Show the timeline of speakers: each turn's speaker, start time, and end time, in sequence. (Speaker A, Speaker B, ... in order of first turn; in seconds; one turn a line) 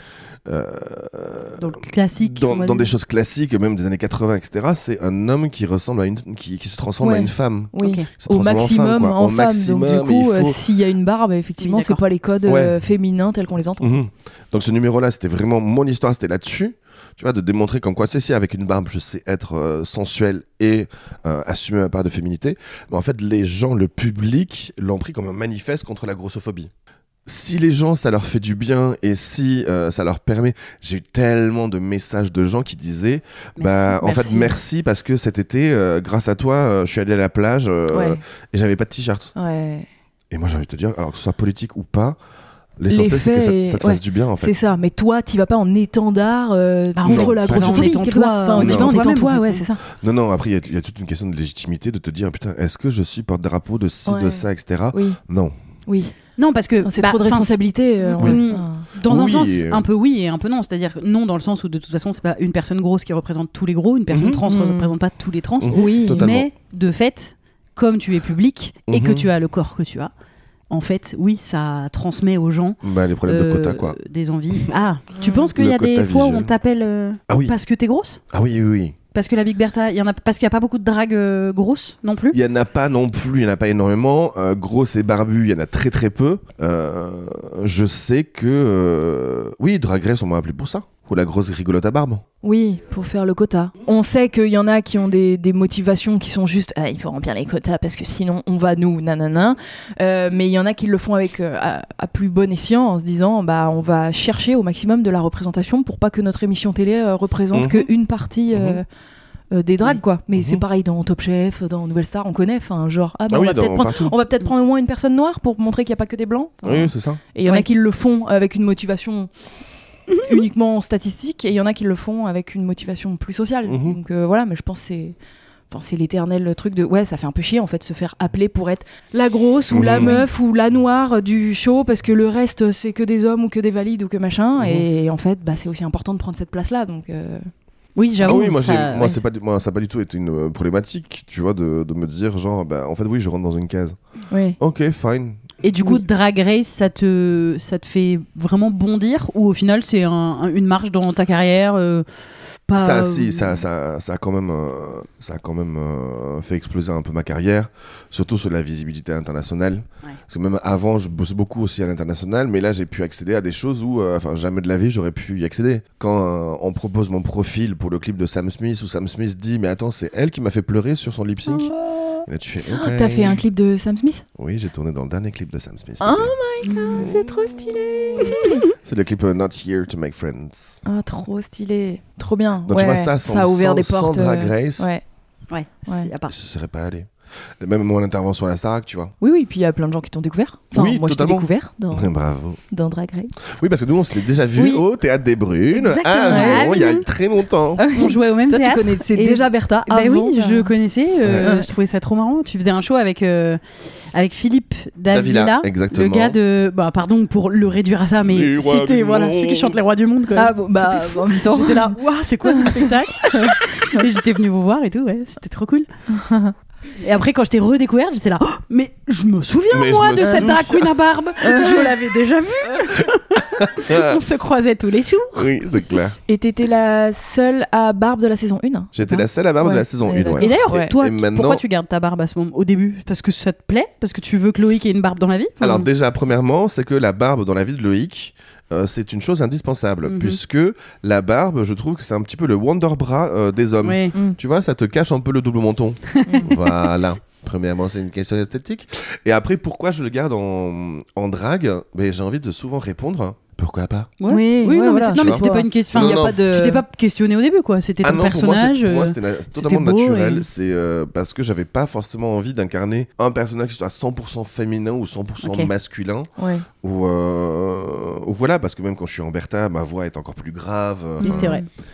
Speaker A: 0.5-10.6
Speaker B: 1.6-2.9
Speaker C: 7.0-13.9
Speaker B: 7.8-8.1
Speaker B: 11.6-12.1
Speaker A: 12.4-12.8
Speaker A: 13.8-26.7
Speaker A: 27.3-39.3
Speaker B: 33.6-34.0
Speaker C: 34.0-34.5
Speaker C: 37.9-38.2
Speaker C: 39.4-39.9
Speaker A: 40.3-42.2
Speaker A: 42.8-44.5
Speaker C: 42.9-49.8
Speaker B: 47.0-49.6
Speaker A: 47.0-48.0
Speaker A: 48.5-49.1
Speaker A: 49.8-55.5
Speaker C: 54.1-55.2
Speaker C: 55.9-56.1
Speaker B: 56.4-70.1
Speaker C: 56.8-58.9
Speaker A: 59.0-59.9
Speaker A: 64.1-64.4
Speaker C: 64.5-64.9
Speaker A: 65.6-66.5
Speaker C: 65.7-66.3
Speaker A: 68.9-69.3
Speaker B: 70.7-78.2
Speaker A: 72.8-74.0
Speaker C: 75.2-75.5
Speaker A: 75.5-76.5
Speaker A: 77.3-77.5
Speaker A: 78.3-79.0
Speaker B: 79.1-82.4
Speaker A: 82.3-92.2
Speaker C: 92.4-108.9
Speaker A: 107.5-107.9
Speaker A: 108.5-108.8
Speaker C: 109.5-119.3
Speaker A: 110.3-110.6
Speaker A: 113.3-114.2
Speaker A: 116.6-117.2
Speaker B: 120.1-120.4
Speaker C: 120.2-125.2
Speaker A: 123.7-124.0
Speaker C: 125.7-137.5
Speaker A: 129.7-130.2
Speaker B: 130.0-130.3
Speaker A: 134.6-134.9
Speaker B: 138.0-139.2
Speaker C: 138.2-139.1
Speaker A: 138.2-144.0
Speaker C: 144.3-144.6
Speaker A: 144.6-145.4
Speaker B: 145.6-152.1
Speaker B: 152.7-153.6
Speaker A: 152.8-173.4
Speaker C: 172.7-174.2
Speaker A: 174.4-176.3
Speaker C: 176.0-178.6
Speaker B: 176.6-177.1
Speaker A: 176.9-177.6
Speaker A: 178.2-180.8
Speaker C: 180.8-185.0
Speaker A: 182.7-184.9
Speaker B: 185.5-186.3
Speaker A: 186.3-189.2
Speaker C: 189.2-192.1
Speaker A: 190.7-192.6
Speaker C: 192.7-193.3
Speaker A: 193.4-197.9
Speaker B: 194.6-194.8
Speaker B: 195.7-197.1
Speaker C: 196.3-196.6
Speaker C: 197.8-200.7
Speaker B: 197.9-203.6
Speaker A: 201.2-201.5
Speaker C: 201.3-201.7
Speaker B: 204.1-215.9
Speaker A: 205.1-206.4
Speaker A: 208.2-209.8
Speaker C: 210.3-213.5
Speaker C: 216.1-216.5
Speaker B: 217.0-225.5
Speaker A: 219.7-220.9
Speaker C: 220.2-220.5
Speaker C: 221.4-221.9
Speaker A: 223.4-224.2
Speaker A: 225.3-226.2
Speaker C: 226.3-230.9
Speaker A: 228.9-231.6
Speaker B: 230.4-235.9
Speaker A: 235.6-254.1
Speaker B: 240.1-240.4
Speaker B: 243.8-244.2
Speaker B: 246.1-246.8
Speaker C: 246.3-246.5
Speaker B: 254.2-260.5
Speaker C: 254.3-256.8
Speaker A: 255.1-256.4
Speaker A: 258.0-271.6
Speaker B: 265.4-265.7
Speaker C: 266.4-266.7
Speaker C: 271.2-271.6
Speaker B: 271.2-271.7